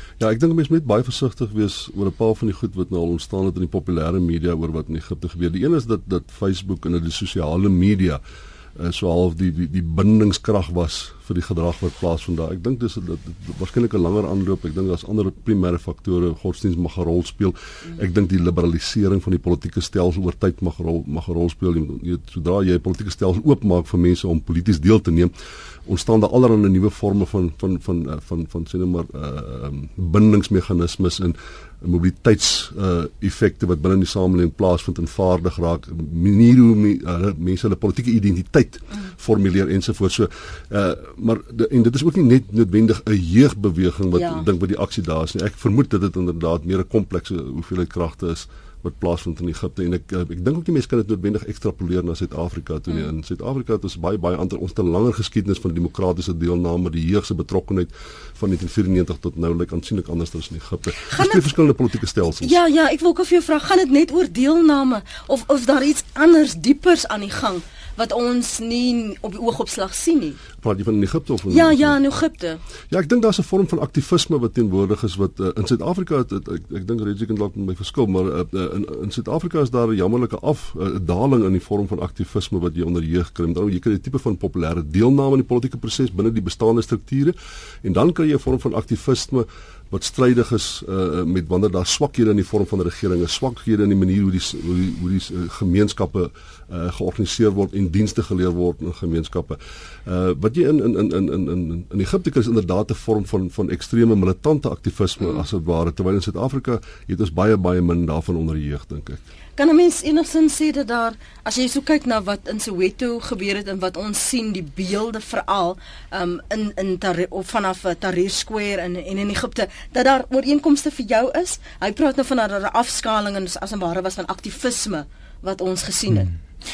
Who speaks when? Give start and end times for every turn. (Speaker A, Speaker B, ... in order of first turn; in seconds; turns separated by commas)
Speaker A: 0.2-8.2, Speaker A: 8.8-25.3, Speaker A: 25.9-62.6, Speaker B: 44.1-44.4, Speaker B: 61.1-61.5, Speaker B: 62.3-70.4, Speaker A: 70.6-72.0, Speaker B: 71.5-72.6, Speaker A: 72.9-109.2, Speaker B: 109.6-126.3